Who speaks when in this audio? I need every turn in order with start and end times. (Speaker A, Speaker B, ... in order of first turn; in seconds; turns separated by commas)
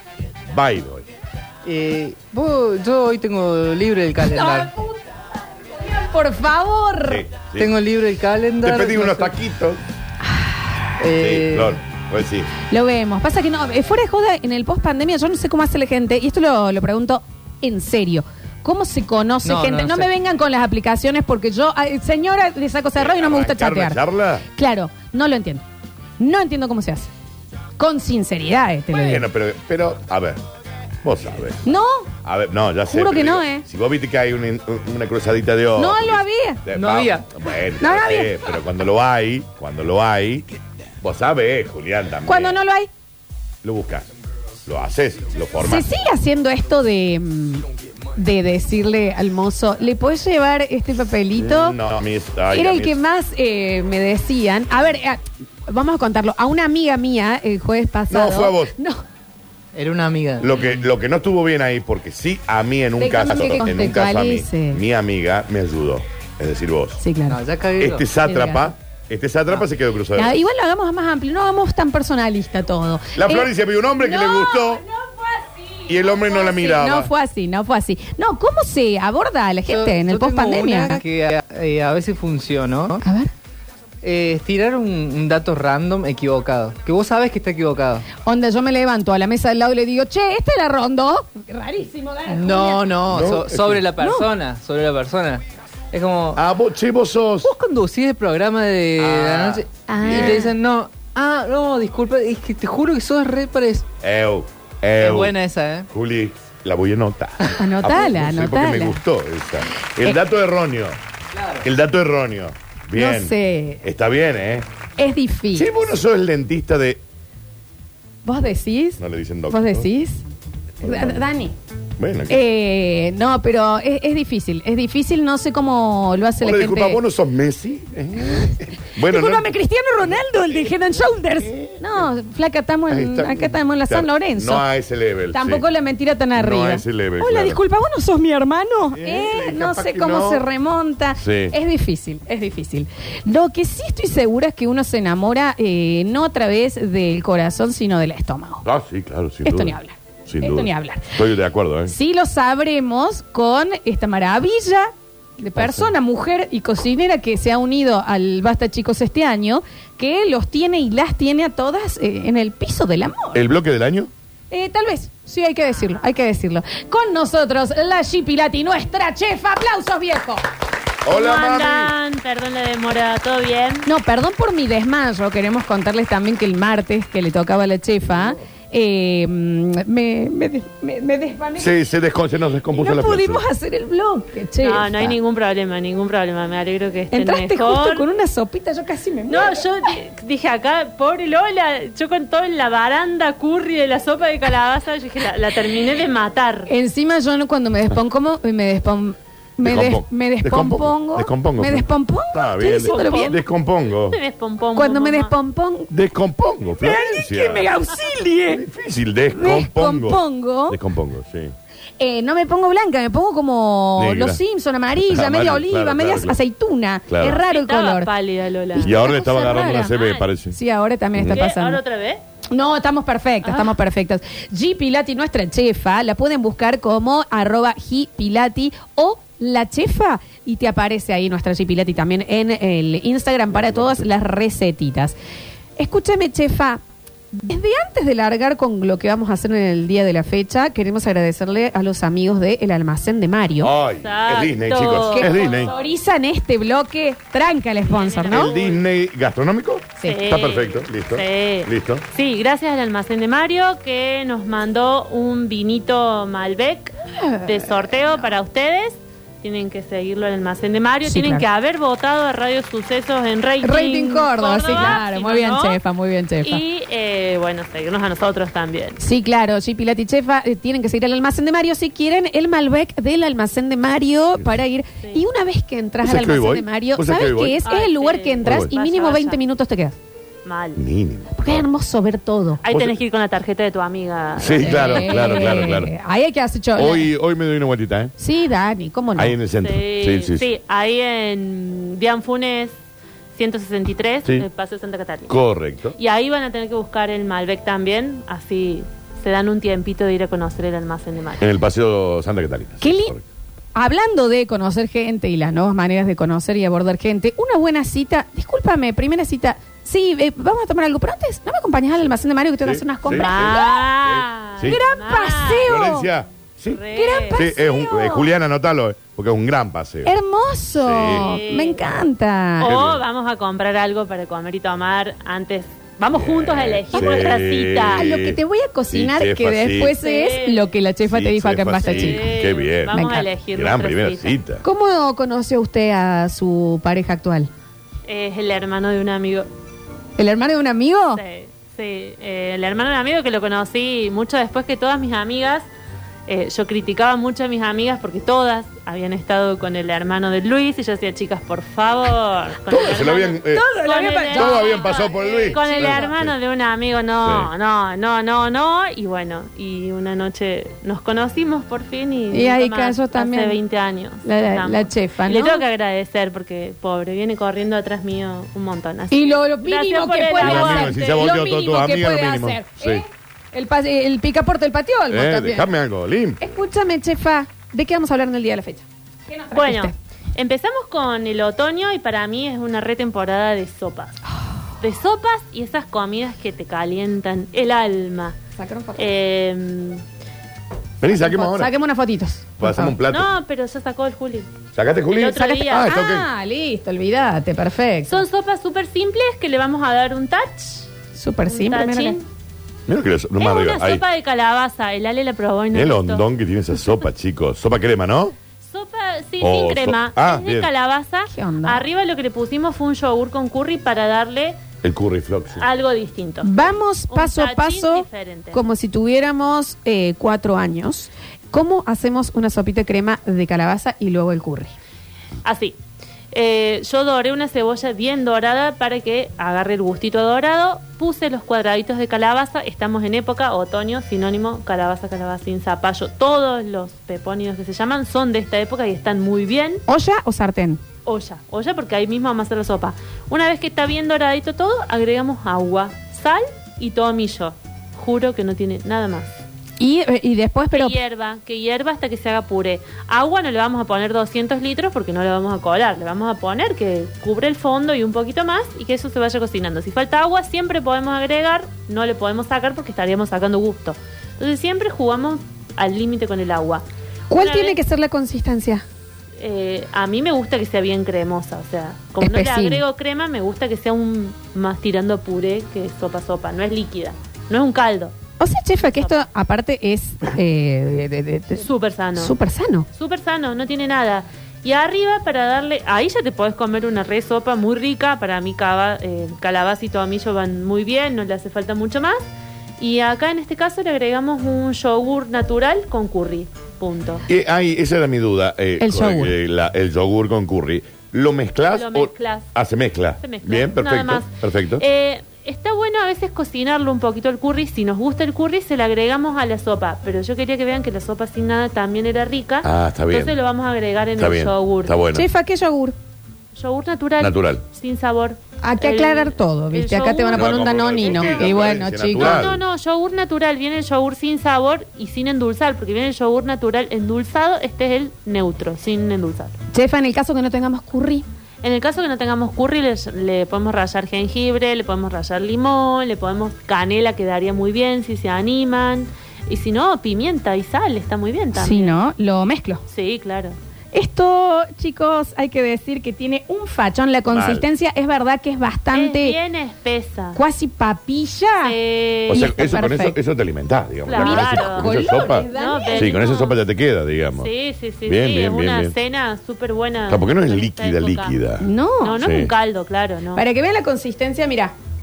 Speaker A: 0.5-1.1, Speaker B: 1.6-4.7, Speaker C: 4.2-7.3, Speaker A: 7.1-7.7, Speaker B: 7.6-9.3, Speaker A: 8.6-9.8, Speaker C: 10.2-11.1, Speaker B: 11.0-11.8, Speaker A: 11.2-12.5, Speaker C: 12.7-24.0, Speaker B: 19.4-20.1, Speaker A: 23.0-24.5, Speaker C: 24.6-25.6, Speaker C: 26.2-27.1, Speaker C: 27.8-29.3, Speaker A: 28.9-30.4, Speaker A: 31.0-31.6, Speaker C: 31.6-32.1, Speaker A: 32.2-40.5, Speaker C: 32.9-33.7, Speaker C: 35.8-36.6, Speaker B: 36.7-37.3, Speaker C: 37.8-38.5, Speaker A: 41.0-42.6, Speaker C: 42.3-42.9, Speaker A: 43.6-44.1, Speaker A: 44.7-45.9, Speaker C: 45.6-51.8, Speaker A: 51.4-53.0, Speaker C: 52.5-59.0, Speaker A: 58.1-58.7, Speaker B: 59.7-60.8, Speaker A: 60.4-67.0, Speaker C: 63.0-64.8, Speaker C: 67.0-67.4, Speaker B: 67.3-68.0, Speaker A: 67.8-70.3, Speaker C: 68.2-68.7, Speaker C: 70.2-81.0, Speaker A: 73.2-74.8, Speaker A: 75.9-77.1, Speaker B: 79.7-83.0, Speaker C: 83.0-83.3, Speaker B: 84.0-88.1, Speaker C: 88.2-93.0, Speaker B: 92.3-96.4, Speaker A: 93.1-93.8, Speaker C: 94.0-94.3, Speaker A: 96.3-97.5, Speaker B: 97.4-103.9, Speaker A: 99.0-100.5, Speaker C: 99.9-100.5, Speaker A: 104.0-105.3, Speaker B: 105.0-105.9, Speaker A: 105.9-111.0, Speaker C: 107.6-109.0, Speaker B: 111.3-111.7, Speaker A: 111.6-114.7, Speaker C: 112.9-113.8, Speaker C: 115.0-115.7, Speaker A: 115.5-117.0, Speaker C: 118.2-120.2, Speaker A: 119.0-119.9, Speaker C: 120.8-121.5, Speaker A: 120.8-121.2, Speaker A: 122.0-122.4, Speaker C: 122.3-127.0, Speaker A: 126.4-129.5, Speaker C: 129.1-134.7, Speaker A: 130.0-130.8, Speaker A: 131.4-132.1, Speaker A: 132.9-135.7, Speaker C: 135.3-148.7, Speaker A: 136.4-137.6, Speaker A: 138.9-140.4, Speaker A: 141.2-141.6, Speaker A: 148.7-149.8, Speaker C: 149.4-151.2, Speaker A: 150.3-151.9, Speaker C: 151.9-163.5, Speaker A: 155.6-155.9, Speaker A: 163.3-164.1, Speaker C: 164.5-170.4, Speaker D: 165.8-166.0, Speaker A: 171.1-171.9, Speaker D: 171.1-173.9, Speaker C: 173.8-181.7, Speaker A: 181.6-183.4, Speaker C: 182.7-185.2, Speaker D: 184.6-188.1, Speaker C: 187.1-189.9, Speaker D: 189.3-196.7, Speaker C: 196.7-203.4, Speaker A: 199.6-204.2, Speaker D: 202.8-203.4, Speaker D: 204.1-205.3, Speaker C: 204.8-205.9, Speaker A: 205.9-207.8, Speaker C: 206.8-208.6, Speaker A: 208.5-211.5, Speaker C: 209.3-210.8, Speaker C: 212.0-218.1, Speaker A: 214.0-214.4, Speaker A: 215.0-216.4, Speaker A: 217.1-217.4, Speaker D: 217.2-218.9, Speaker C: 218.7-219.9, Speaker A: 218.8-220.6, Speaker D: 219.6-220.3, Speaker C: 220.5-221.8, Speaker A: 221.2-221.4, Speaker D: 221.3-222.2, Speaker C: 222.5-235.2, Speaker D: 223.4-223.7, Speaker A: 233.6-234.0, Speaker C: 235.8-243.7, Speaker A: 243.6-245.7, Speaker D: 244.0-245.9, Speaker C: 245.1-248.5, Speaker D: 247.8-248.8, Speaker A: 248.3-252.1, Speaker D: 250.0-265.8, Speaker C: 257.1-258.3, Speaker C: 261.0-261.5, Speaker C: 263.6-266.6, Speaker D: 266.4-269.0, Speaker C: 269.0-280.0, Speaker A: 276.0-277.6, Speaker D: 277.6-279.4, Speaker A: 278.4-278.7, Speaker D: 280.4-280.8, Speaker A: 280.8-281.6, Speaker C: 281.4-282.6, Speaker D: 282.6-285.8, Speaker A: 284.4-285.9, Speaker C: 284.6-287.1, Speaker A: 286.8-288.1, Speaker C: 288.2-289.4, Speaker A: 289.1-290.4, Speaker D: 289.6-292.8, Speaker D: 293.4-295.4, Speaker A: 295.3-296.0, Speaker D: 296.0-301.5, Speaker A: 301.4-303.2, Speaker C: 302.8-303.2, Speaker C: 303.8-313.8, Speaker A: 312.6-314.8, Speaker D: 313.1-315.8, Speaker C: 314.7-316.1, Speaker A: 315.6-316.8, Speaker D: 316.7-317.4, Speaker C: 317.0-318.3, Speaker A: 317.3-320.1, Speaker C: 320.1-322.8, Speaker A: 320.8-321.3, Speaker D: 321.1-321.8, Speaker D: 322.6-328.1, Speaker A: 322.7-323.0, Speaker A: 326.1-328.4, Speaker C: 328.0-332.3, Speaker A: 328.9-330.0, Speaker D: 330.0-330.7, Speaker A: 331.1-333.0, Speaker D: 331.8-334.4, Speaker C: 332.9-333.3, Speaker A: 333.5-334.6, Speaker C: 334.6-337.5, Speaker D: 338.1-339.5, Speaker C: 340.2-341.2, Speaker D: 341.1-345.7, Speaker D: 346.3-371.4, Speaker A: 352.7-353.7, Speaker C: 353.5-356.1, Speaker A: 354.3-356.3, Speaker A: 357.2-357.5, Speaker C: 362.3-363.6, Speaker C: 364.2-365.6, Speaker C: 369.1-375.7, Speaker A: 370.4-373.0, Speaker A: 375.1-376.5, Speaker C: 376.4-379.9, Speaker D: 379.5-384.2, Speaker D: 384.8-388.4, Speaker C: 388.6-389.1, Speaker D: 389.0-390.0, Speaker A: 391.0-391.7, Speaker C: 391.0-393.0, Speaker A: 392.6-393.3, Speaker D: 393.1-394.5, Speaker A: 394.8-396.3, Speaker D: 395.1-395.9, Speaker C: 395.7-398.2, Speaker D: 398.1-400.9, Speaker C: 401.1-402.2, Speaker D: 401.5-402.2, Speaker A: 402.9-404.0, Speaker D: 403.4-406.2, Speaker A: 405.7-408.4, Speaker D: 408.6-414.6, Speaker A: 409.4-410.7, Speaker C: 411.3-411.8, Speaker A: 414.8-415.6, Speaker D: 415.6-418.6, Speaker C: 416.4-424.7, Speaker D: 425.4-425.8, Speaker D: 426.3-439.8, Speaker C: 439.9-440.8, Speaker D: 441.1-449.4, Speaker C: 449.8-451.0, Speaker D: 450.7-467.8, Speaker C: 467.3-468.8, Speaker D: 469.4-478.1, Speaker C: 472.2-472.8, Speaker C: 478.4-482.9, Speaker D: 478.8-479.2, Speaker D: 481.6-482.4, Speaker D: 482.9-492.2, Speaker D: 492.8-497.2, Speaker A: 497.3-504.8, Speaker C: 498.8-499.4, Speaker D: 501.7-502.5, Speaker D: 503.2-515.0, Speaker A: 512.6-513.4, Speaker A: 514.2-515.3, Speaker C: 515.1-516.0, Speaker D: 516.5-529.6, Speaker A: 517.2-517.6, Speaker C: 518.6-522.5, Speaker A: 520.4-522.6, Speaker C: 529.7-531.2, Speaker D: 531.6-542.0, Speaker C: 541.5-542.8, Speaker D: 542.9-543.5, Speaker C: 543.9-549.4, Speaker A: 547.3-547.7, Speaker D: 548.9-550.4, Speaker C: 550.4-551.8, Speaker D: 551.6-552.7, Speaker A: 552.3-557.5, Speaker C: 552.3-553.2, Speaker D: 554.1-556.6, Speaker C: 554.2-556.1, Speaker D: 557.4-561.4, Speaker A: 558.1-559.0, Speaker A: 560.1-561.7, Speaker C: 561.6-562.2, Speaker D: 562.0-563.5, Speaker A: 562.2-562.5, Speaker C: 563.4-564.8